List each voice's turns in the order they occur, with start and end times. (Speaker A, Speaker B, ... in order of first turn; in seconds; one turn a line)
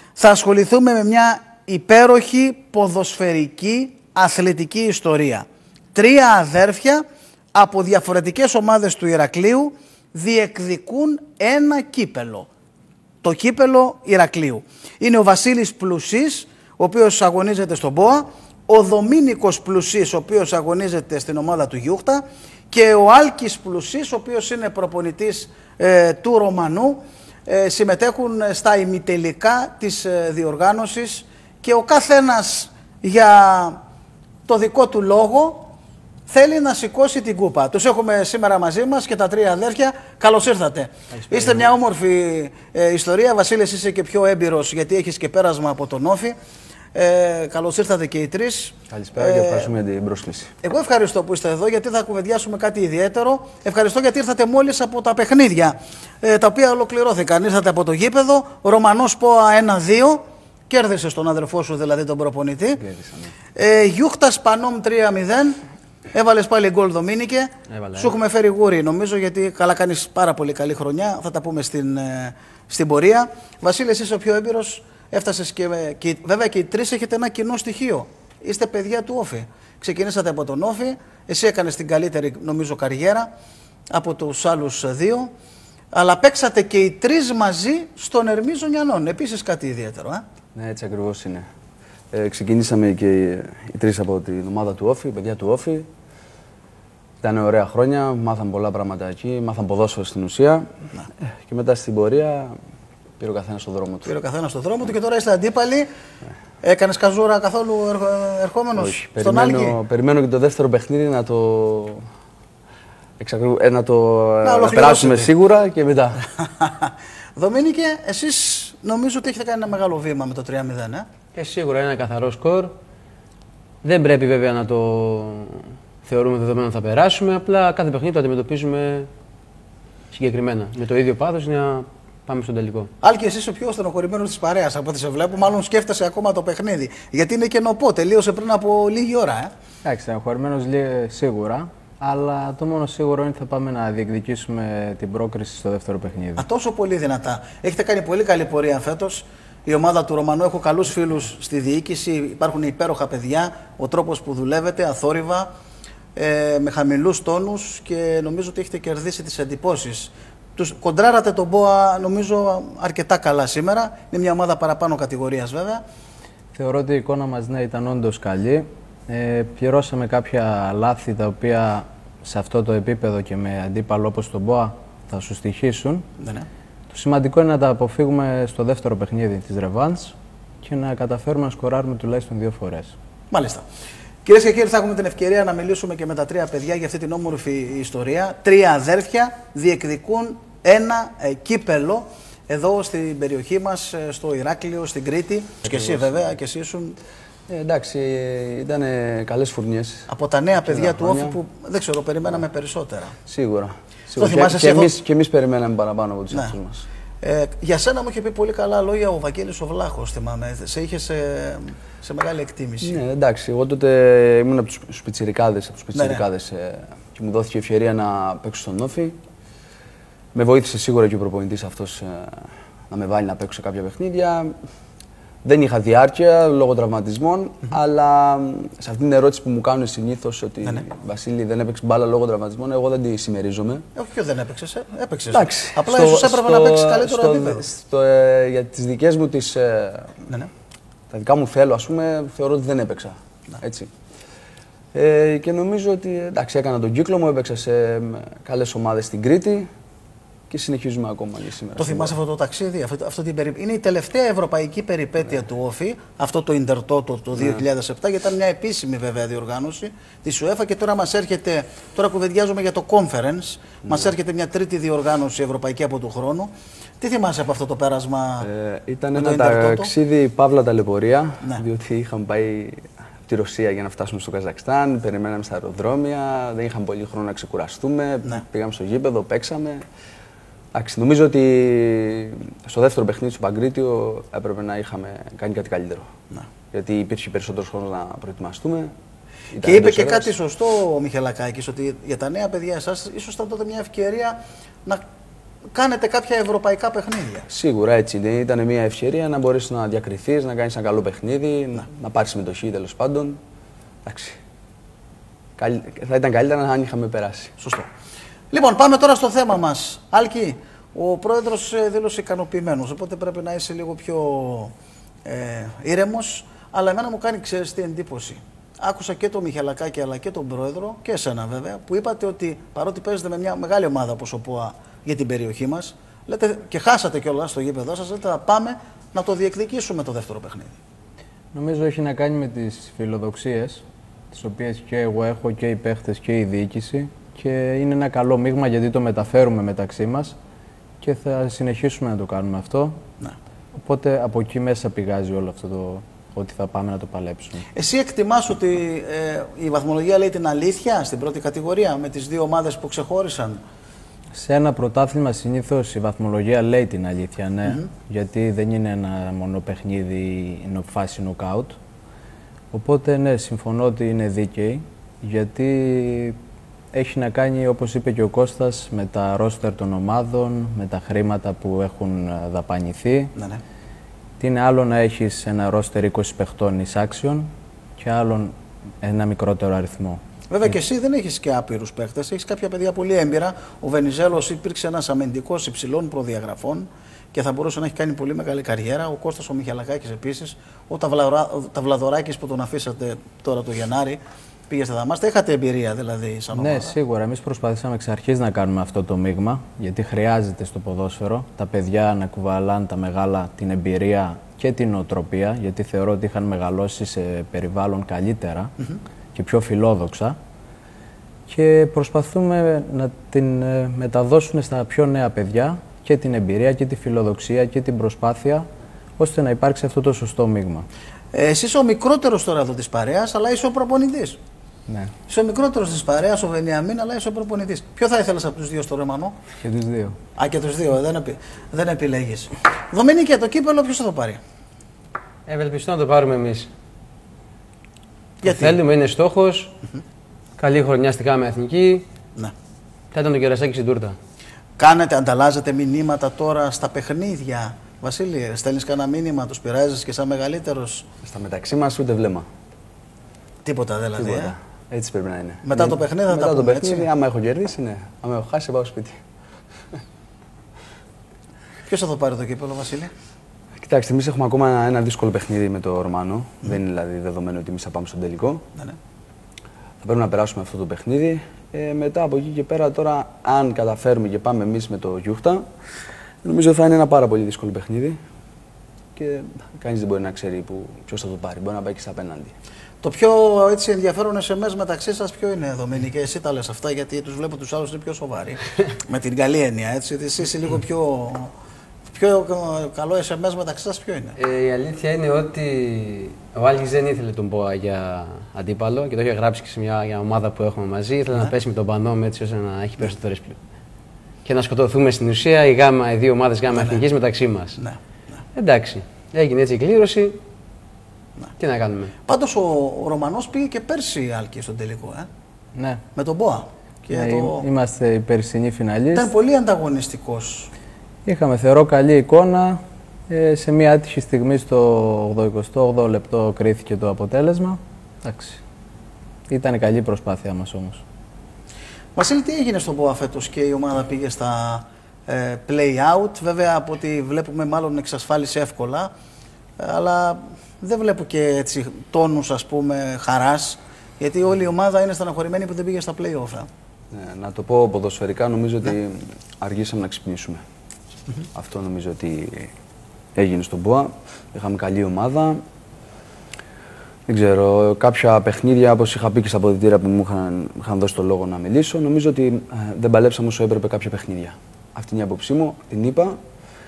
Speaker A: 0.2-12.5
Speaker A: 13.2-33.8
Speaker A: 34.5-35.7
Speaker A: 36.3-46.4
Speaker A: 47.0-49.7
Speaker B: 48.9-50.5
Speaker A: 50.6-62.8
Speaker B: 62.8-63.3
Speaker A: 63.6-65.6
Speaker A: 66.1-83.3
Speaker C: 67.7-68.2
Speaker A: 83.9-85.3
Speaker A: 85.9-90.2
Speaker B: 90.5-91.5
Speaker B: 92.1-95.9
Speaker B: 97.2-100.7
Speaker B: 101.2-102.5
Speaker B: 103.2-104.1
Speaker A: 104.0-105.9
Speaker A: 106.6-109.8
Speaker B: 108.8-112.0
Speaker B: 113.2-116.2
Speaker A: 114.4-115.3
Speaker A: 116.6-121.1
Speaker C: 121.3-122.7
Speaker C: 123.8-129.1
Speaker C: 130.1-132.9
Speaker A: 133.0-139.5
Speaker D: 139.8-146.4
Speaker A: 146.4-155.5
Speaker A: 156.2-165.8
Speaker D: 166.6-176.1
Speaker A: 176.2-176.5
Speaker D: 176.9-182.9
Speaker A: 183.3-183.7
Speaker A: 184.2-197.0
Speaker B: 195.6-196.2
Speaker B: 197.5-200.1
Speaker A: 200.1-203.2
Speaker B: 200.6-201.4
Speaker B: 203.2-206.9
Speaker A: 204.2-205.0
Speaker A: 207.2-213.0
Speaker B: 212.8-219.2
Speaker A: 215.9-216.2
Speaker B: 220.3-224.5
Speaker B: 225.4-233.8
Speaker A: 233.9-237.7
Speaker B: 235.3-240.2
Speaker B: 241.1-243.9
Speaker B: 244.9-249.7
Speaker B: 250.5-252.2
Speaker A: 251.8-268.5
Speaker B: 263.9-264.1
Speaker B: 268.4-279.9
Speaker A: 269.1-269.9
Speaker B: 280.7-286.1
Speaker B: 286.7-288.9
Speaker B: 289.5-290.3
Speaker A: 289.6-295.0
Speaker A: 295.7-297.5
Speaker B: 297.5-303.4
Speaker B: 304.1-304.4
Speaker B: 305.6-307.5
Speaker A: 307.6-307.9
Speaker A: 308.5-314.7
Speaker A: 315.3-330.8
Speaker D: 331.5-340.4
Speaker D: 341.0-343.0
Speaker D: 343.8-347.6
Speaker A: 347.7-353.6
Speaker D: 354.4-361.8
Speaker A: 357.6-357.9
Speaker D: 362.7-366.4
Speaker D: 366.9-373.3
Speaker A: 373.4-373.6
Speaker D: 374.4-380.2
Speaker A: 380.5-397.0
Speaker D: 396.5-408.7
Speaker D: 409.4-410.4
Speaker D: 411.5-418.7
Speaker D: 419.2-420.9
Speaker A: 421.3-424.4
Speaker D: 424.9-425.1
Speaker A: 425.3-429.4
Speaker D: 429.6-430.2
Speaker A: 430.4-434.4
Speaker C: 435.5-436.7
Speaker A: 438.4-438.8
Speaker C: 438.4-439.7
Speaker C: 440.6-442.1
Speaker C: 443.1-444.2
Speaker A: 444.8-451.1
Speaker B: 451.2-452.4
Speaker A: 453.6-454.5
Speaker B: 454.2-459.2
Speaker A: 455.6-457.1
Speaker A: 461.9-463.1
Speaker B: 463.8-468.6
Speaker B: 470.0-475.7
Speaker B: 476.4-478.2
Speaker B: 479.2-482.5
Speaker A: 483.0-491.5
Speaker A: 492.1-494.4
Speaker C: 494.4-503.6
Speaker C: 504.4-507.8
Speaker A: 506.7-507.0
Speaker C: 508.6-510.4
Speaker C: 511.6-512.1
Speaker A: 512.3-515.3
Speaker D: 515.8-516.0
Speaker A: 516.1-517.7
Speaker D: 517.1-519.3
Speaker A: 519.1-520.7
Speaker D: 521.3-528.6
Speaker D: 529.5-531.0
Speaker A: 532.1-539.1
Speaker A: 539.8-546.7
Speaker B: 547.1-550.6
Speaker B: 551.5-552.7
Speaker B: 553.4-555.6
Speaker B: 557.3-566.4